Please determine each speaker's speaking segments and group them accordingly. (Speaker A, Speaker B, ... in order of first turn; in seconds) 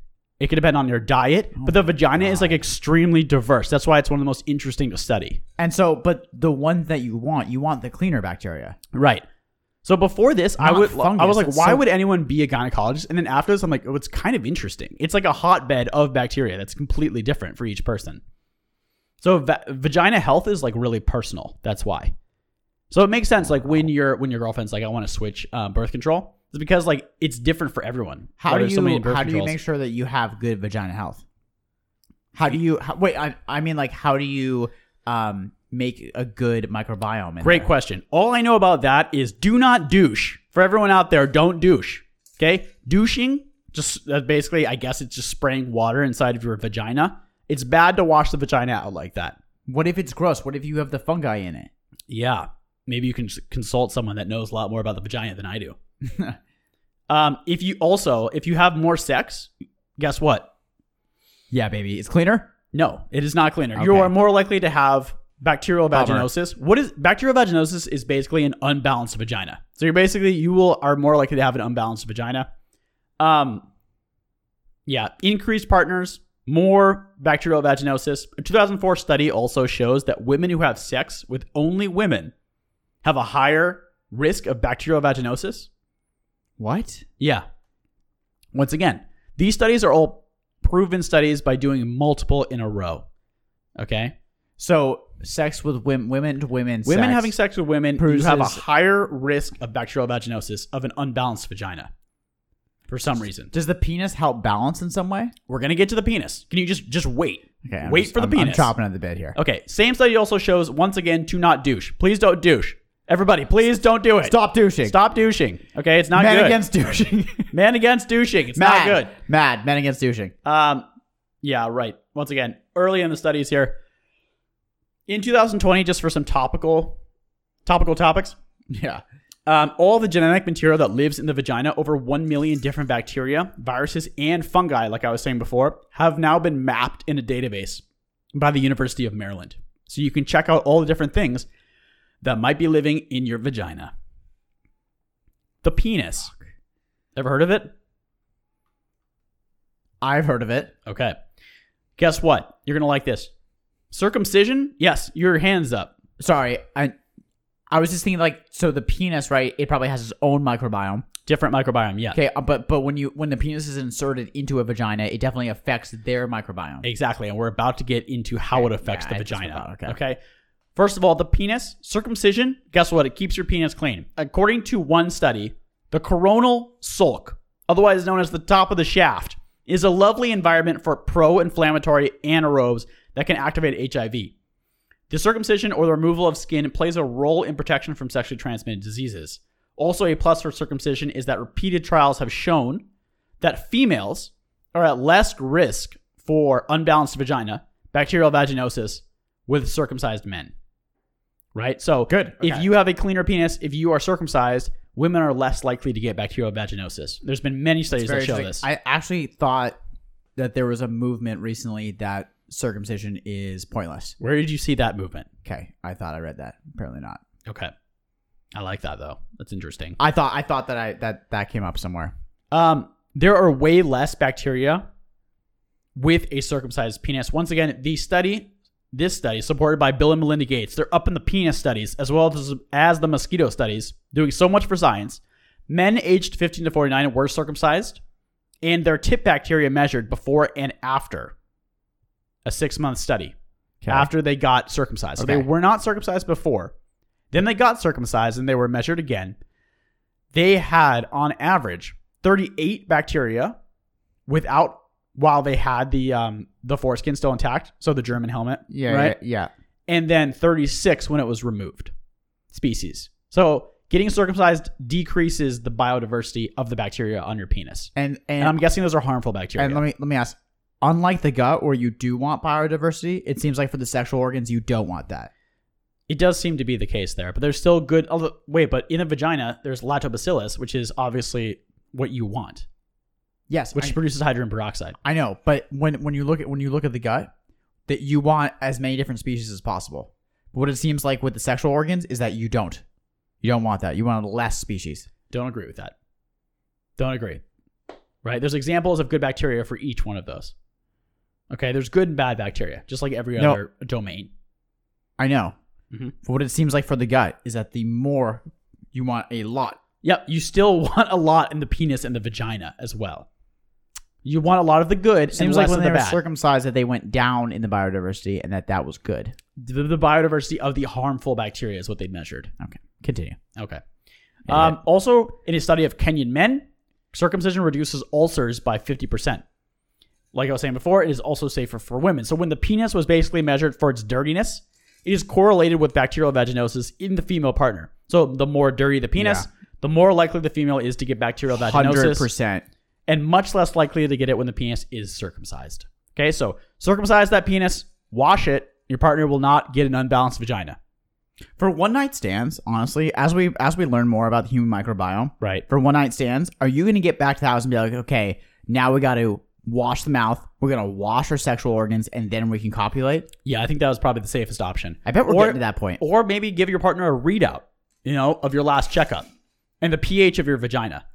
Speaker A: 0.4-5.4, 8.9-9.2, 9.8-18.2, 19.2-22.1, 22.9-29.6, 37.4-49.4, 52.1-55.8, 57.1-60.5, 62.7-72.5, 73.2-73.7, 74.9-82.3, 83.0-85.7, 87.2-87.5, 88.5-93.0, 93.8-94.1, 96.8-101.9, 102.9-103.5, 105.5-108.7, 109.3-116.6, 117.5-119.1, 120.5-120.8, 121.4-123.8, 125.1-127.0, 127.7-128.4, 129.5-137.8, 138.3-141.5, 142.2-143.9, 145.6-146.3, 147.2-147.7, 150.8-151.2, 152.0-153.3, 153.9-155.9, 161.3-162.2, 166.8-170.2, 170.8-184.3, 185.1-192.8, 193.4-200.5, 201.5-208.7, 214.2-215.3, 217.4-217.7, 218.5-220.0, 222.5-224.8, 226.0-238.0, 238.6-241.3, 242.4-243.3, 243.9-246.7, 247.3-249.4, 250.3-253.6, 254.3-259.2, 259.9-261.9, 262.5-269.8, 276.1-282.7, 283.7-285.0, 295.3-295.9, 297.0-297.4, 298.2-300.5, 301.5-304.3, 310.0-313.3, 314.2-316.2, 319.6-322.5, 323.6-323.8, 324.5-329.4, 330.3-342.3, 343.1-350.8, 355.4-355.6, 363.4-369.3, 369.8-371.0
Speaker B: 1.6-2.6, 5.6-8.8, 10.6-11.8, 28.4-31.2, 32.4-37.7, 49.7-51.7, 56.0-56.4, 61.5-62.5, 63.8-64.1, 65.9-66.3, 86.6-87.0, 94.6-97.3, 98.0-98.6, 103.5-105.3, 107.6-109.4, 114.2-115.0, 116.1-117.5, 118.5-120.3, 128.7-129.0, 150.0-150.7, 156.2-156.9, 157.7-161.1, 162.1-166.9, 168.5-170.0, 202.1-202.7, 207.9-209.8, 210.4-214.2, 215.4-217.2, 220.0-222.1, 243.8-244.1, 245.2-245.5, 258.7-259.5, 268.0-268.6, 269.6-275.3, 283.5-284.0, 285.0-287.3, 287.9-292.8, 293.4-295.1, 305.2-305.6, 306.2-309.8, 315.3-319.4, 322.6-323.4, 324.5-324.8, 339.2-339.5, 341.5-342.6, 351.6-363.3, 365.1-366.0